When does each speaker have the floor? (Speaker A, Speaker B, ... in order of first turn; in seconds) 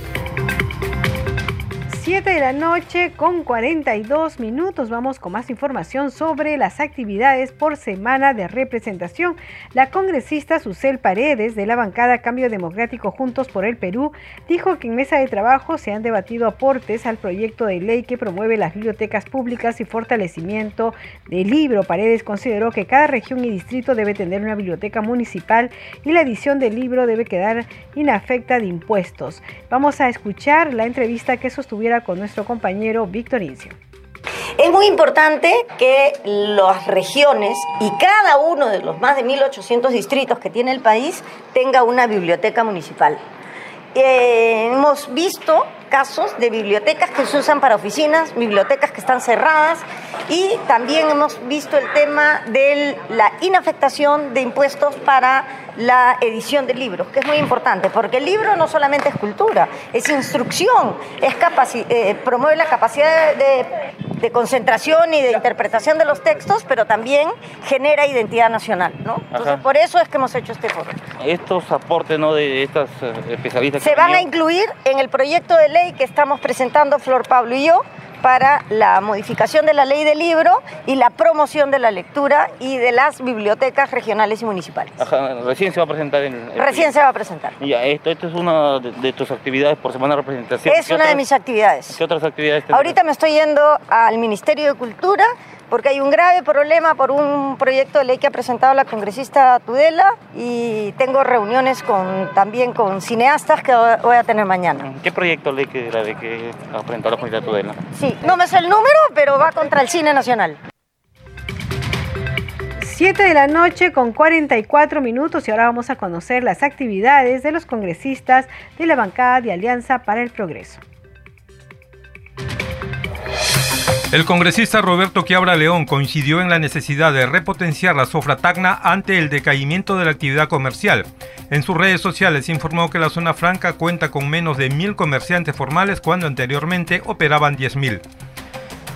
Speaker A: 1.9-33.8, 112.8-120.8
Speaker B: 34.6-43.2, 43.9-71.0, 73.8-85.0, 86.5-87.5, 90.6-92.0, 92.7-104.8, 107.9-110.6
Speaker C: 69.3-69.6, 71.2-74.3, 85.0-86.9, 87.6-91.2, 91.9-93.0, 104.8-107.8
Speaker D: 124.1-138.0